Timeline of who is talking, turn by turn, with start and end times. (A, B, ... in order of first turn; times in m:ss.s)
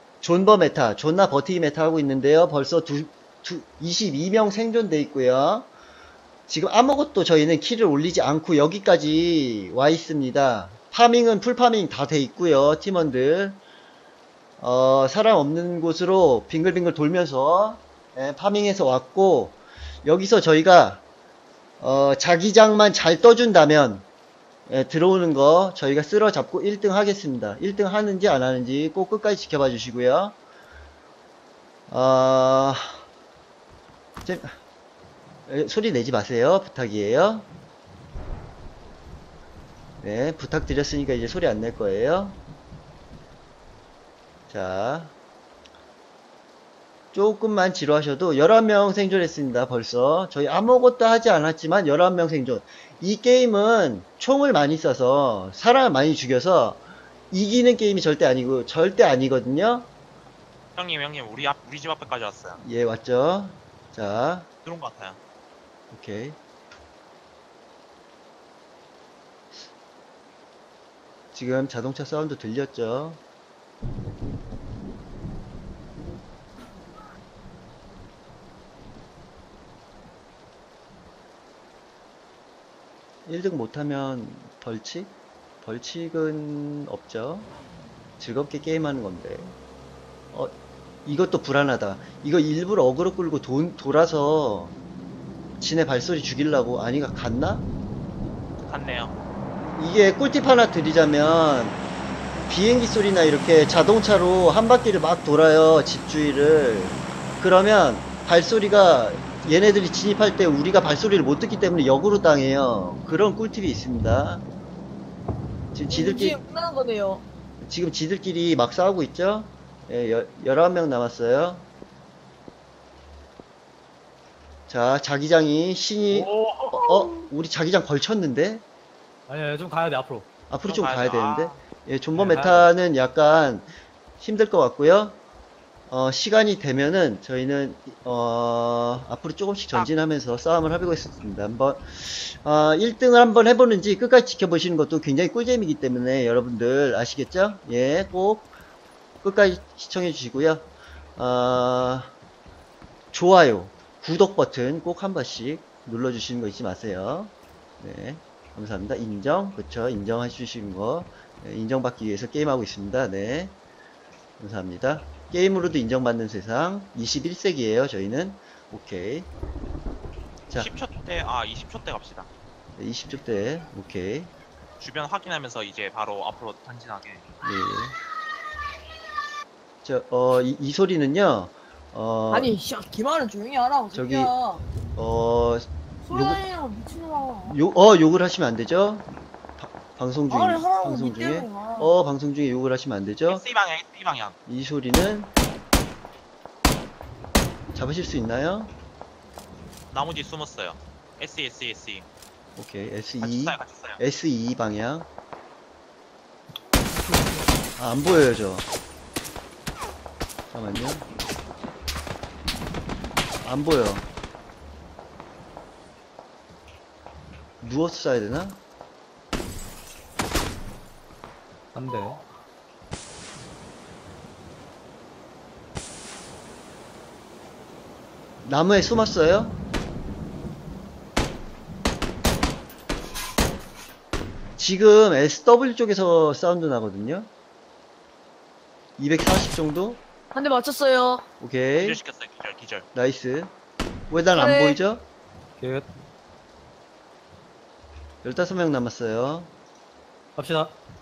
0:00.2-0:05.7 A
0:06.5-0:13.6 A
0:14.6-0:21.0 A
0:21.8-0:24.0 A
0:24.7-0:30.4 A
0:31.9-0:33.0 A
0:34.2-0:34.5 A
0:35.5-0:37.5 A
0:40.0-0:42.4 A
0:44.5-0:45.1 A
0:47.1-0:59.9 A
1:00.8-1:02.6 B
1:02.6-1:04.5 A
1:04.6-1:05.2 B
1:05.9-1:06.4 A
1:11.3-1:13.2 A
1:23.2-1:27.5 A
1:28.2-1:29.5 A
1:31.0-1:34.7 A
1:35.6-1:37.6 A
1:38.6-1:39.1 B
1:39.8-1:41.8 A
1:42.5-1:54.4 A
1:55.7-1:56.4 A
1:55.9-1:57.2 C
1:57.6-2:01.6 A
2:04.7-2:08.6 A
2:06.1-2:07.1 D
2:09.3-2:10.3 D
2:10.5-2:15.2 A
2:10.6-2:11.6 B
2:12.1-2:12.7 D
2:15.9-2:28.5 A
2:29.2-2:30.6 A
2:31.2-2:32.1 A
2:33.1-2:43.6 A
2:44.4-2:49.3 A
2:50.5-2:52.3 B
2:52.8-2:54.3 A
2:54.8-2:57.2 B
2:57.4-2:57.9 A
2:59.8-3:02.5 A
3:02.3-3:04.6 C
3:03.9-3:04.3 A
3:04.9-3:06.4 A
3:06.0-3:07.6 C
3:07.4-3:09.1 A
3:09.6-3:13.4 A
3:10.3-3:11.9 C
3:13.3-3:14.4 B
3:14.5-3:15.3 A
3:17.7-3:18.7 A
3:19.9-3:22.0 B
3:22.6-3:25.1 A
3:23.2-3:24.0 B
3:27.8-3:28.6 A
3:30.5-3:31.1 A
3:33.4-3:34.0 A
3:37.6-3:38.6 A
3:41.7-3:42.2 D
3:48.4-3:49.6 A
3:54.6-3:57.3 A
3:59.0-4:00.0 A
4:00.3-4:01.2 C
4:01.4-4:02.0 A
4:01.8-4:02.8 B
4:02.9-4:03.5 A
4:04.1-4:05.0 A
4:04.3-4:04.8 C
4:05.6-4:05.9 D
4:08.2-4:09.5 A
4:10.4-4:10.8 D